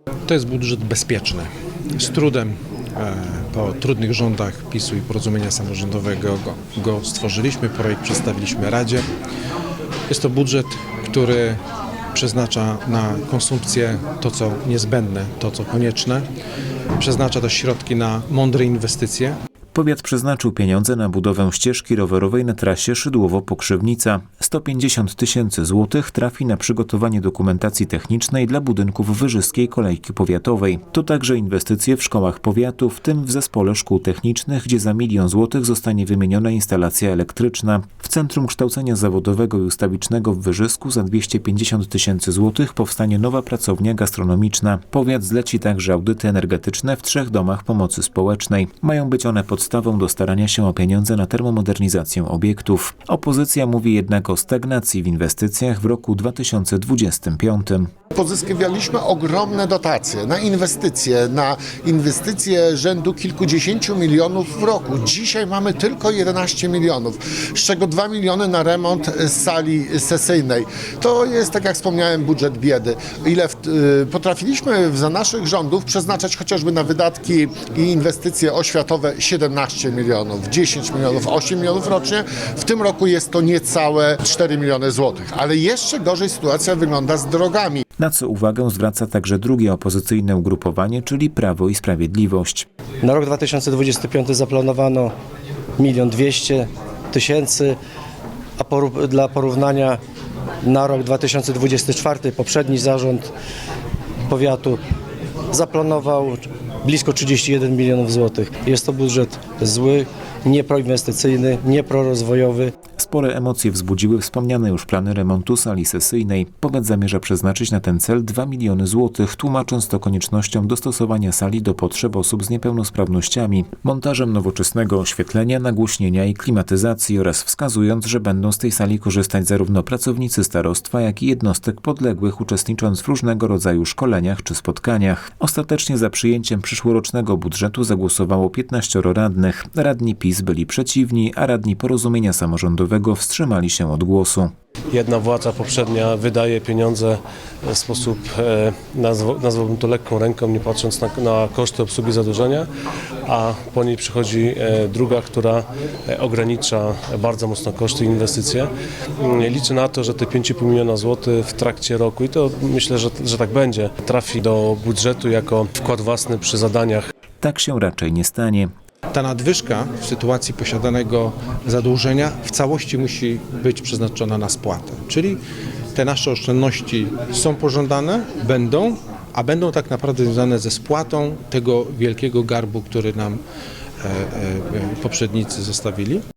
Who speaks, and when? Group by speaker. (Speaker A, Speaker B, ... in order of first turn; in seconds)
Speaker A: 0.3-9.1, 10.1-11.6, 12.1-16.3, 17.0-19.4, 169.1-175.4, 175.9-183.4, 184.0-186.2
Speaker B: 19.7-57.9, 88.0-92.7, 113.0-144.5, 167.4-168.7
Speaker C: 58.1-87.8
Speaker D: 93.0-95.1, 95.8-97.8, 98.6-100.0, 100.6-103.3, 104.3-104.8, 105.5-112.7
Speaker E: 144.9-152.7, 153.2-167.1